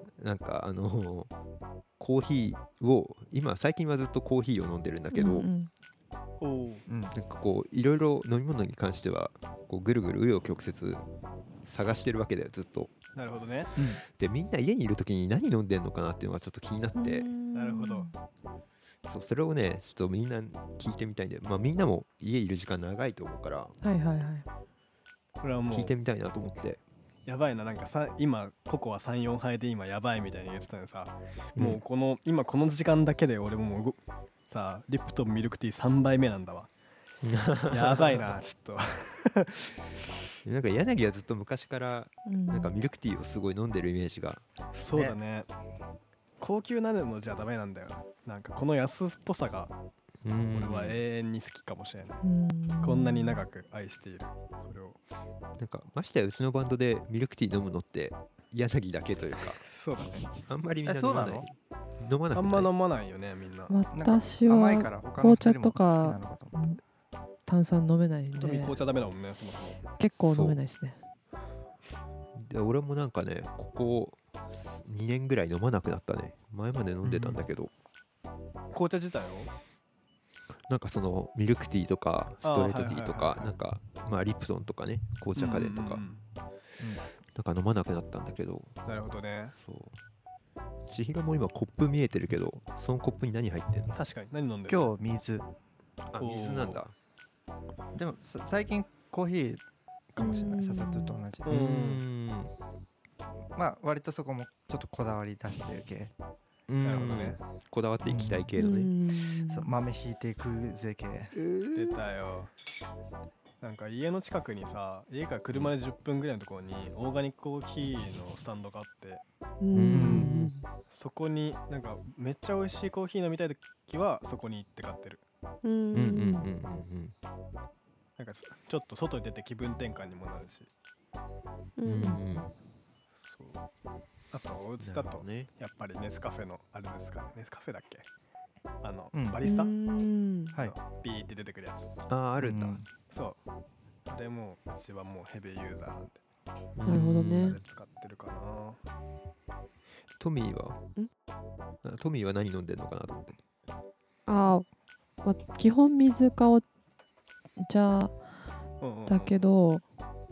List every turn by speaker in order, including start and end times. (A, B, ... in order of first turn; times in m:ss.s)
0:00.2-0:01.3 A
0:02.0-0:05.5 A
0:05.1-0:05.7 B
0:06.4-0:06.8 C
0:06.9-0:07.1 D
0:07.1-0:11.0 A
0:11.6-0:12.9 A
0:13.2-0:13.7 C
0:13.8-0:14.0 D
0:14.0-0:17.3 A
0:17.0-0:18.1 B
0:17.5-0:18.1 C
0:19.0-0:23.7 A
0:23.8-0:24.4 B
0:25.4-0:25.9 C
0:25.7-0:26.8 A
0:27.2-0:34.0 C
0:31.6-0:31.8 A
0:34.5-0:36.7 C
0:37.2-0:38.2 A
0:37.7-0:39.8 C
0:40.4-0:44.4 A
0:42.2-0:42.7 B
0:44.7-0:45.5 C
0:44.9-0:45.2 D
0:46.4-0:49.7 C
0:50.2-0:51.0 A
0:50.5-0:52.2 C
0:52.2-0:53.4 B
0:52.8-0:55.0 C
0:55.6-0:59.6 A
0:59.6-1:00.3 C
1:00.5-1:02.7 A
1:00.8-1:01.5 D
1:02.3-1:03.7 C
1:03.7-1:06.8 B
1:03.9-1:06.6 D
1:07.5-1:08.7 B
1:08.4-1:09.8 C
1:10.0-1:11.0 B
1:10.3-1:10.6 A
1:12.4-1:17.7 A
1:17.0-1:17.4 D
1:18.7-1:19.5 C
1:20.7-1:26.0 A
1:22.4-1:23.5 C
1:25.4-1:26.2 C
1:27.3-1:28.7 A
1:28.8-1:29.6 C
1:29.6-1:30.0 A
1:30.9-1:34.0 A
1:33.9-1:34.9 C
1:34.7-1:35.4 D
1:36.1-1:36.9 A
1:36.2-1:36.8 C
1:37.9-1:41.6 D
1:40.5-1:41.2 B
1:41.4-1:42.0 C
1:41.4-1:42.5 A
1:43.5-1:46.1 D
1:46.7-1:48.9 A
1:46.8-1:47.4 C
1:48.0-1:48.5 D
1:48.6-1:49.7 B
1:49.4-1:51.4 D
1:51.3-1:52.0 A
1:51.7-1:52.5 C
1:53.6-1:59.2 C
1:59.6-2:00.6 B
1:59.7-2:00.5 A
1:59.9-2:00.4 D
2:00.9-2:05.2 C
2:05.7-2:06.4 B
2:05.9-2:07.1 A
2:08.2-2:10.7 C
2:11.8-2:12.5 A
2:11.9-2:12.2 B
2:13.2-2:13.6 C
2:14.3-2:18.0 C
2:14.8-2:15.5 A
2:18.8-2:19.7 C
2:19.1-2:19.4 D
2:19.4-2:20.5 B
2:20.5-2:21.9 C
2:22.1-2:22.8 A
2:22.4-2:22.8 D
2:23.1-2:23.4 C
2:24.1-2:26.2 C
2:26.8-2:27.6 A
2:26.8-2:27.6 B
2:27.2-2:28.8 C
2:30.2-2:30.9 A
2:31.8-2:33.3 A
2:34.3-2:34.7 B
2:35.2-2:36.6 B
2:37.6-2:38.2 B
2:38.8-2:39.4 C
2:39.1-2:39.8 B